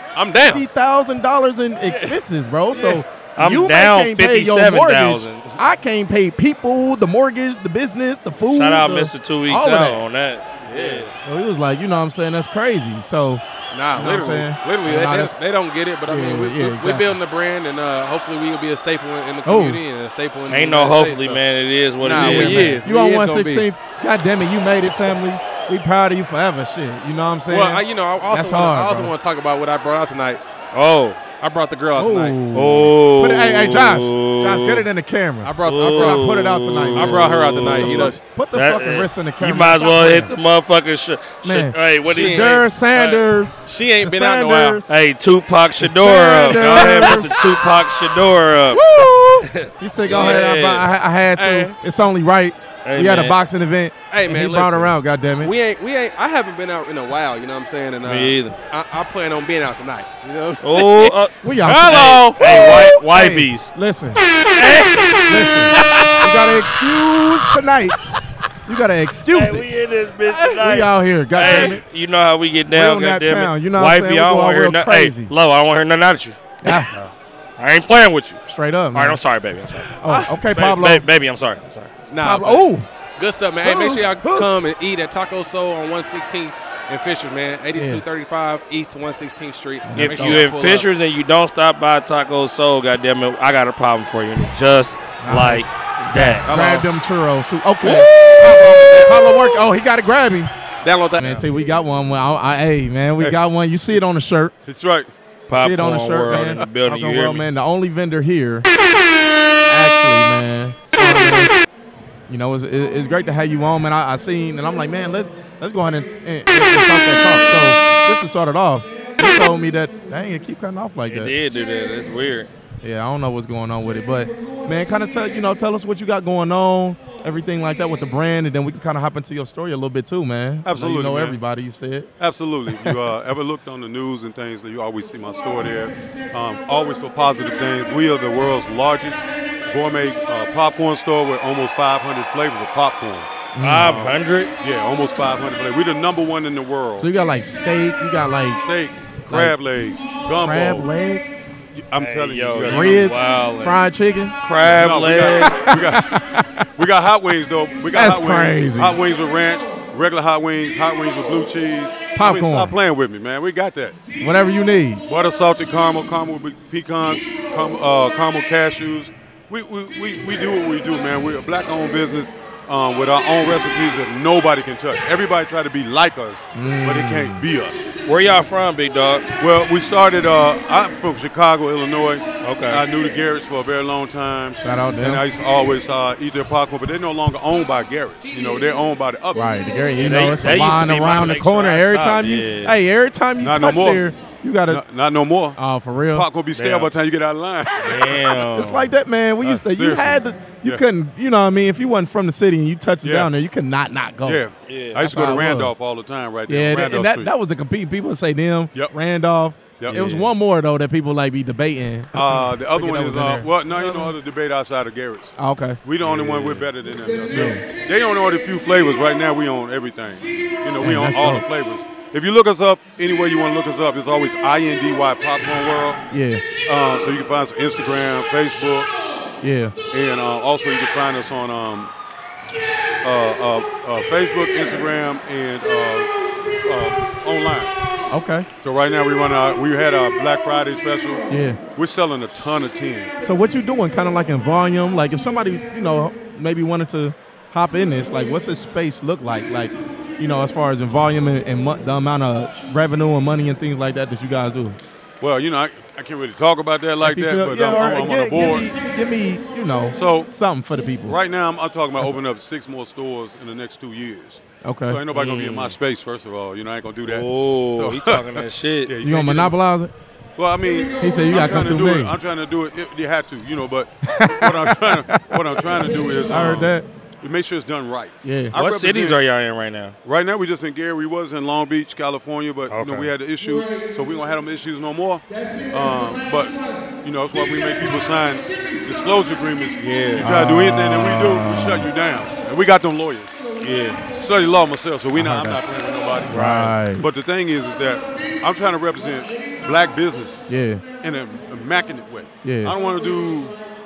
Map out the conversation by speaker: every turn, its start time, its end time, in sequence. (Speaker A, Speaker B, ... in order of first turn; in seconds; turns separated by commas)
Speaker A: 0.1-0.6, Speaker B: 0.4-10.0, Speaker A: 1.9-2.2, Speaker A: 2.7-3.0, Speaker C: 3.4-5.6, Speaker C: 8.5-11.1, Speaker A: 10.6-11.1, Speaker B: 11.2-13.4, Speaker A: 13.7-21.4, Speaker B: 13.9-15.3, Speaker B: 16.1-17.2, Speaker B: 19.4-19.8, Speaker C: 20.5-22.8, Speaker A: 22.0-23.7, Speaker B: 22.1-29.1, Speaker A: 27.5-30.4, Speaker C: 30.7-31.2, Speaker A: 31.4-32.4, Speaker B: 31.9-40.3, Speaker C: 32.5-34.9, Speaker A: 35.4-38.2, Speaker C: 35.6-42.6, Speaker B: 41.4-44.9, Speaker A: 42.0-44.8, Speaker C: 44.9-48.9, Speaker B: 45.8-47.4, Speaker A: 46.6-47.2, Speaker B: 48.7-55.5, Speaker C: 49.4-50.9, Speaker A: 50.0-50.5, Speaker A: 51.3-51.7, Speaker C: 52.8-53.4, Speaker A: 54.1-62.9, Speaker C: 58.0-58.6, Speaker C: 60.6-63.7, Speaker B: 61.4-64.2, Speaker C: 64.5-66.1, Speaker B: 65.3-68.1, Speaker B: 68.7-69.8, Speaker C: 69.3-78.4, Speaker B: 70.4-71.8, Speaker A: 71.3-71.8, Speaker B: 72.7-75.3, Speaker B: 76.6-76.9, Speaker B: 78.5-79.2, Speaker C: 78.9-81.9, Speaker B: 80.0-81.0, Speaker A: 80.0-80.7, Speaker A: 82.1-90.9, Speaker B: 82.2-82.9, Speaker B: 83.6-84.5, Speaker B: 87.7-88.0, Speaker B: 89.8-90.5, Speaker C: 90.0-96.5, Speaker B: 95.2-100.5, Speaker A: 96.5-96.9, Speaker A: 97.8-99.7, Speaker A: 100.8-101.4, Speaker B: 101.2-104.5, Speaker D: 104.7-105.1, Speaker C: 105.5-107.5, Speaker B: 105.5-108.7, Speaker B: 109.7-111.6, Speaker B: 112.3-121.3, Speaker C: 121.1-122.5, Speaker B: 122.8-132.1, Speaker D: 130.6-131.4, Speaker D: 132.2-143.3, Speaker B: 132.7-133.0, Speaker B: 143.5-144.2, Speaker C: 143.6-144.5, Speaker D: 144.6-147.1, Speaker B: 147.0-148.6, Speaker D: 148.6-150.9, Speaker B: 149.3-149.5, Speaker B: 150.4-151.3, Speaker D: 151.8-153.2, Speaker C: 151.9-153.8, Speaker B: 152.6-154.3, Speaker C: 154.4-155.7, Speaker D: 154.6-156.1, Speaker B: 155.5-156.7, Speaker D: 156.8-164.0, Speaker B: 157.9-159.0, Speaker B: 162.1-162.7, Speaker B: 164.2-165.0, Speaker D: 165.1-177.9, Speaker B: 176.5-177.4, Speaker C: 178.1-179.3, Speaker D: 179.4-189.4, Speaker C: 182.4-182.8, Speaker B: 184.6-185.2, Speaker B: 189.3-194.8, Speaker C: 190.0-192.7, Speaker D: 193.4-194.0, Speaker D: 194.7-195.6, Speaker B: 195.6-196.3, Speaker D: 196.1-198.5, Speaker C: 196.5-196.9, Speaker C: 197.8-198.9, Speaker B: 198.6-204.4, Speaker D: 199.4-200.8, Speaker D: 203.0-203.3, Speaker D: 204.2-207.3, Speaker C: 204.7-205.2, Speaker B: 205.0-205.7, Speaker B: 206.5-214.1, Speaker D: 209.8-210.2, Speaker D: 212.1-226.0, Speaker B: 215.4-216.5, Speaker B: 217.3-217.6, Speaker B: 220.8-221.4, Speaker B: 226.1-226.4, Speaker D: 226.6-228.9, Speaker B: 229.4-229.7, Speaker D: 229.9-231.9, Speaker D: 233.0-237.7, Speaker B: 238.1-238.5, Speaker D: 238.6-243.2, Speaker B: 241.3-241.6, Speaker B: 243.2-254.8, Speaker D: 255.2-258.7, Speaker B: 257.0-261.2, Speaker D: 259.9-260.3, Speaker D: 261.1-269.5, Speaker B: 264.6-265.0, Speaker C: 265.1-265.7, Speaker C: 267.0-268.9, Speaker B: 269.0-269.9, Speaker D: 270.4-279.2, Speaker B: 271.0-272.1, Speaker B: 274.1-275.6, Speaker B: 276.3-276.9, Speaker B: 278.2-278.5, Speaker C: 278.5-279.9, Speaker D: 280.0-293.4, Speaker C: 282.7-283.1, Speaker C: 289.8-290.3, Speaker B: 290.2-291.9, Speaker C: 293.6-294.0, Speaker D: 294.1-303.6, Speaker B: 295.1-295.6, Speaker B: 296.3-297.1, Speaker B: 300.5-300.8, Speaker B: 302.4-302.7